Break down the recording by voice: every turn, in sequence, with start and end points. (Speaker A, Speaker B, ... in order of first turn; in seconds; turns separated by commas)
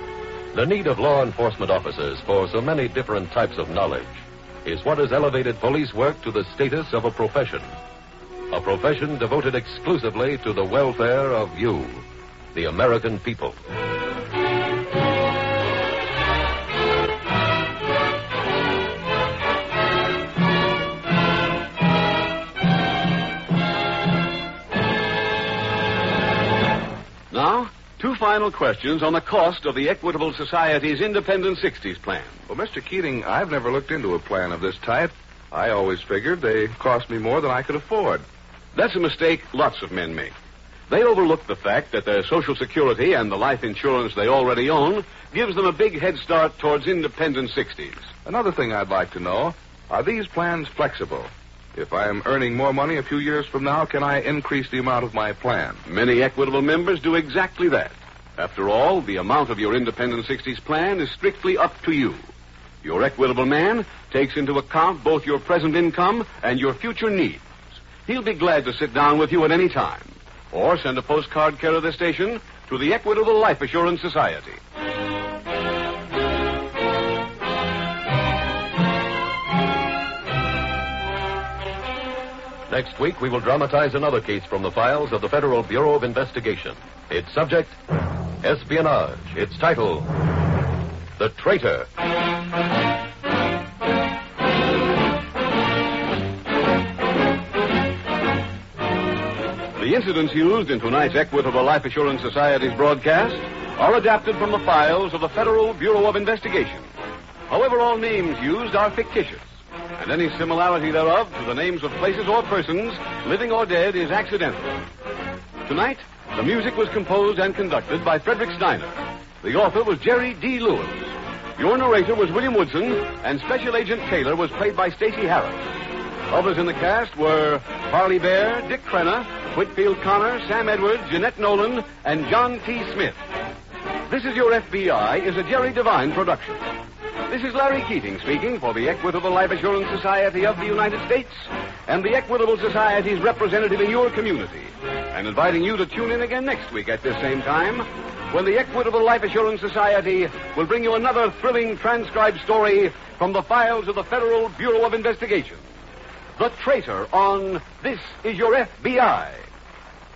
Speaker A: 0.5-7.7, Speaker A: 8.5-13.6, Speaker B: 27.3-32.4, Speaker C: 32.5-38.2, Speaker B: 38.7-40.3, Speaker B: 40.9-48.1, Speaker C: 48.2-55.8, Speaker B: 55.9-62.2, Speaker B: 62.8-67.4, Speaker B: 68.0-74.6, Speaker A: 82.7-87.8, Speaker A: 88.4-90.1, Speaker A: 91.2-91.9, Speaker B: 99.8-106.9, Speaker B: 107.5-114.8, Speaker B: 115.7-125.6, Speaker B: 126.3-133.2, Speaker B: 134.1-136.6, Speaker B: 137.3-155.6, Speaker B: 156.4-159.5